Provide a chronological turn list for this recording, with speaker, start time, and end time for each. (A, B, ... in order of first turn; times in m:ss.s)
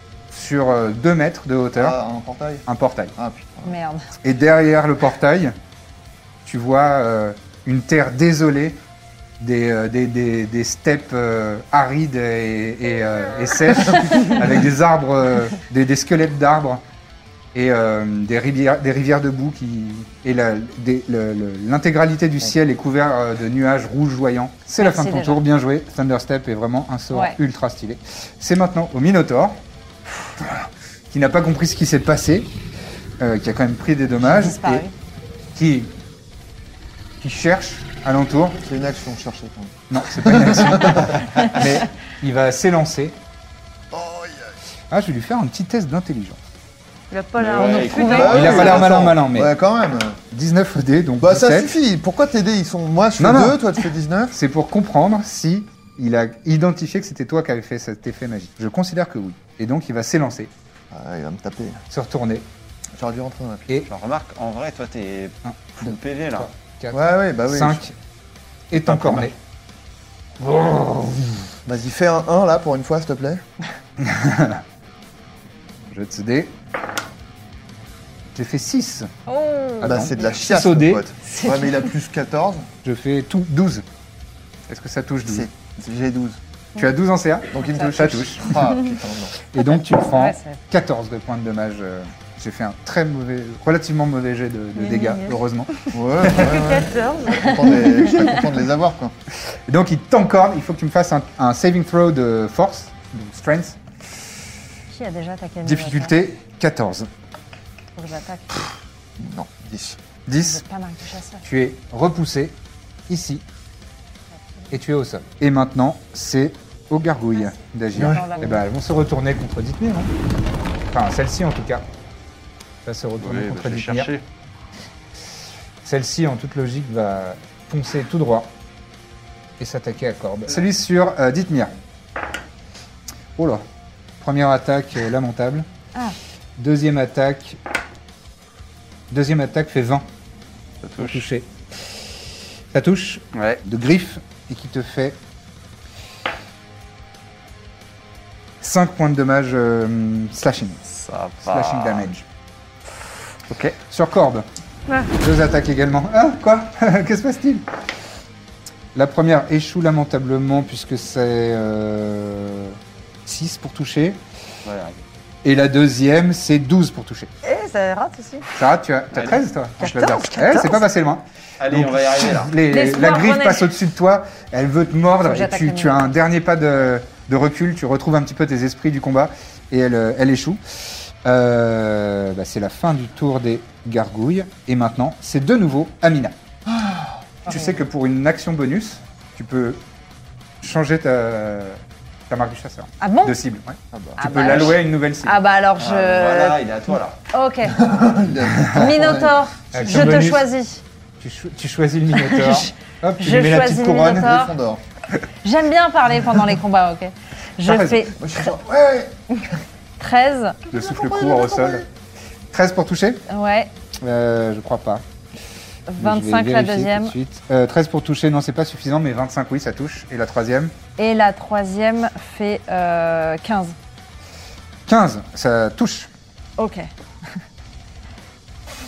0:00.3-0:02.0 A
0:01.8-0:03.7 B
0:02.6-0:03.1 A
0:03.6-0:04.0 C
0:04.2-0:05.5 A
0:06.4-0:08.8 A
0:09.4-0:16.8 A
0:17.5-0:29.6 A
0:24.8-0:25.4 C
0:27.1-0:27.4 C
0:30.4-0:32.5 A
0:33.2-0:34.8 A
0:34.2-0:34.9 C
0:35.5-0:35.9 A
0:37.2-0:38.6 A
0:38.6-0:41.4 B
0:39.9-0:43.2 A
0:43.9-0:44.5 B
0:44.9-0:46.4 A
0:47.1-0:48.9 D
0:47.4-0:50.2 B
0:47.4-0:48.9 E
0:48.3-0:49.5 A
0:50.3-0:51.7 A
0:51.2-0:54.3 B
0:53.2-0:53.6 A
0:54.3-1:00.5 A
1:00.9-1:01.8 B
1:01.9-1:02.5 A
1:03.0-1:03.7 B
1:03.9-1:06.5 E
1:05.4-1:07.9 A
1:06.9-1:07.8 B
1:08.7-1:09.4 A
1:08.8-1:09.3 B
1:10.4-1:11.5 A
1:11.6-1:13.4 B
1:14.0-1:14.6 A
1:15.9-1:16.5 A
1:18.3-1:19.1 A
1:19.3-1:20.3 C
1:19.8-1:21.0 A
1:19.8-1:22.7 B
1:21.2-1:21.9 C
1:22.8-1:23.8 A
1:24.7-1:25.5 A
1:25.3-1:26.4 B
1:26.8-1:28.8 A
1:27.5-1:29.4 B
1:27.6-1:27.9 C
1:29.5-1:36.5 A
1:30.0-1:30.6 C
1:34.8-1:37.6 D
1:35.9-1:39.1 B
1:39.7-1:43.8 A
1:44.9-1:46.1 C
1:45.6-1:47.1 A
1:48.0-1:48.5 C
1:49.2-1:50.0 B
1:50.2-1:50.6 A
1:50.4-1:51.4 C
1:51.4-1:53.4 A
1:54.7-2:00.1 A
1:57.3-1:58.6 C
1:57.9-1:58.2 B
2:00.9-2:01.8 A
2:02.8-2:04.1 A
2:03.2-2:04.2 E
2:05.8-2:08.5 A
2:09.6-2:11.7 A
2:13.4-2:13.6 A
2:14.2-2:15.7 A
2:16.6-2:17.6 A
2:19.1-2:20.1 A
2:20.8-2:21.2 E
2:21.0-2:21.5 A
2:22.7-2:25.2 A
2:23.3-2:23.6 E
2:28.6-2:30.8 A
2:30.9-2:32.1 E
2:31.4-2:32.2 A
2:33.5-2:33.8 E
2:33.8-2:34.4 A
2:35.1-2:37.6 A
2:38.9-2:44.2 A
2:44.6-2:45.0 E
2:45.4-2:47.3 A
2:47.4-2:48.5 D
2:48.5-3:06.4 A
2:49.1-2:49.4 E
2:49.8-2:50.8 D
2:51.6-2:52.6 E
2:52.7-2:53.7 C
2:55.2-2:56.1 C
3:06.6-3:07.2 B
3:07.5-3:07.8 C
3:07.5-3:09.8 A
3:10.6-3:15.4 A
3:13.0-3:13.4 C
3:13.9-3:14.6 B
3:14.2-3:16.6 C
3:15.8-3:17.2 E
3:17.3-3:17.8 C
3:17.8-3:19.4 B
3:18.7-3:20.8 C
3:19.7-3:20.5 A
3:21.2-3:24.3 A
3:22.1-3:24.6 C
3:24.1-3:24.8 B
3:25.4-3:28.2 C
3:27.6-3:28.1 A
3:28.2-3:29.2 B
3:30.0-3:30.6 C
3:30.7-3:31.8 A
3:30.7-3:31.8 B
3:32.5-3:33.2 A
3:33.3-3:33.7 C
3:34.0-3:35.0 A
3:35.9-3:37.1 C
3:36.0-3:40.7 A
3:41.0-3:43.8 C
3:44.8-3:46.1 A
3:46.6-3:46.9 C